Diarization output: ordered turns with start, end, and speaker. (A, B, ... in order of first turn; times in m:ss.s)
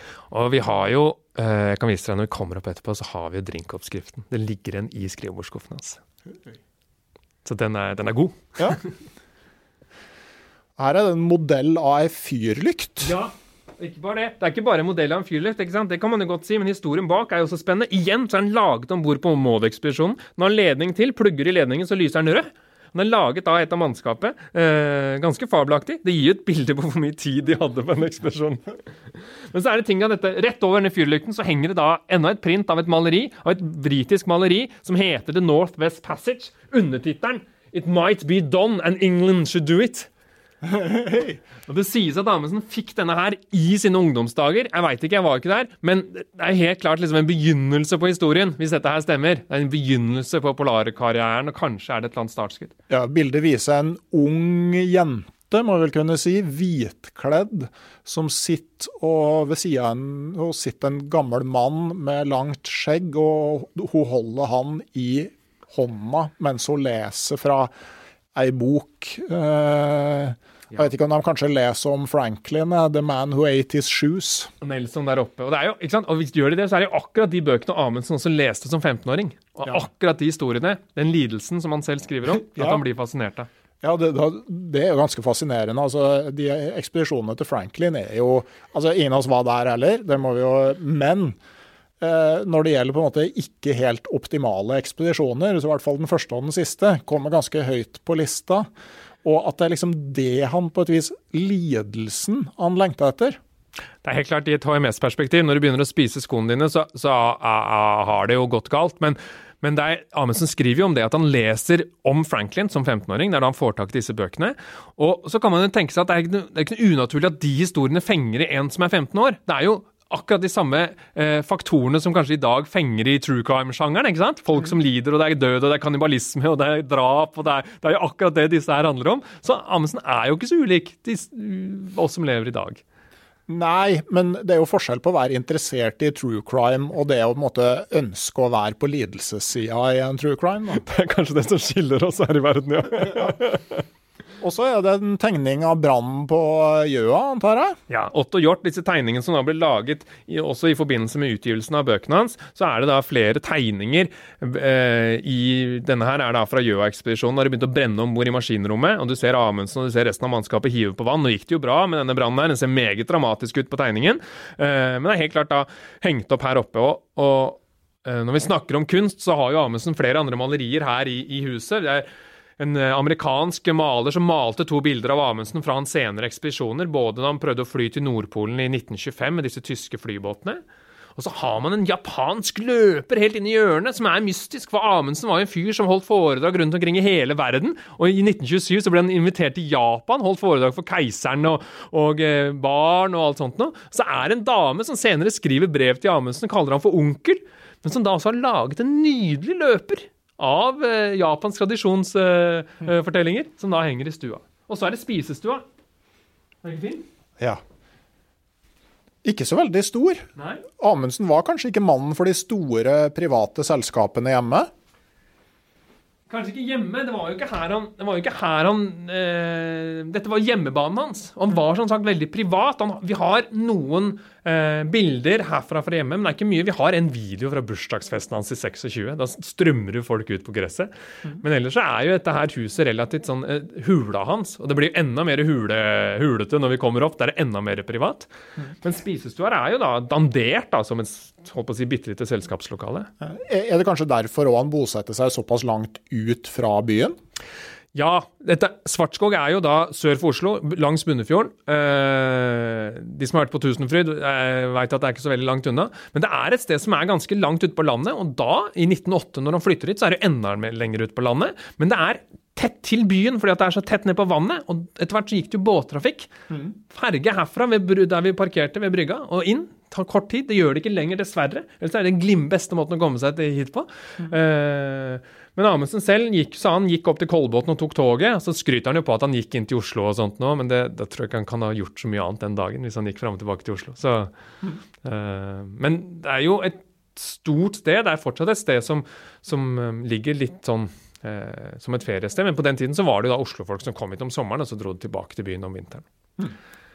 0:00.3-0:06.0 A
0:07.4-0:08.8 A
0:10.8-0:13.1 B
0:13.0-0:40.1 A
0:40.6-0:41.4 B
0:41.6-0:52.7 A
0:52.9-1:07.7 B
1:08.3-1:14.5 B
1:14.6-1:23.5 A
1:22.3-1:22.8 B
1:23.8-1:31.4 B
1:32.0-1:38.7 B
1:39.2-1:43.4 B
1:44.0-2:12.8 A
2:13.5-2:20.8 B
2:20.7-2:23.8 A
2:24.4-2:27.8 B
2:27.9-2:52.1 A
2:52.6-3:00.6 A
3:01.2-3:25.6 A
3:26.6-3:27.0 A
3:29.2-3:34.7 B
3:30.4-3:30.6 A
3:36.3-3:58.3 A
3:58.8-4:03.1 A
4:03.2-4:07.1 B
4:07.9-4:26.3 A
4:26.9-4:44.3 A
4:45.0-4:56.0 A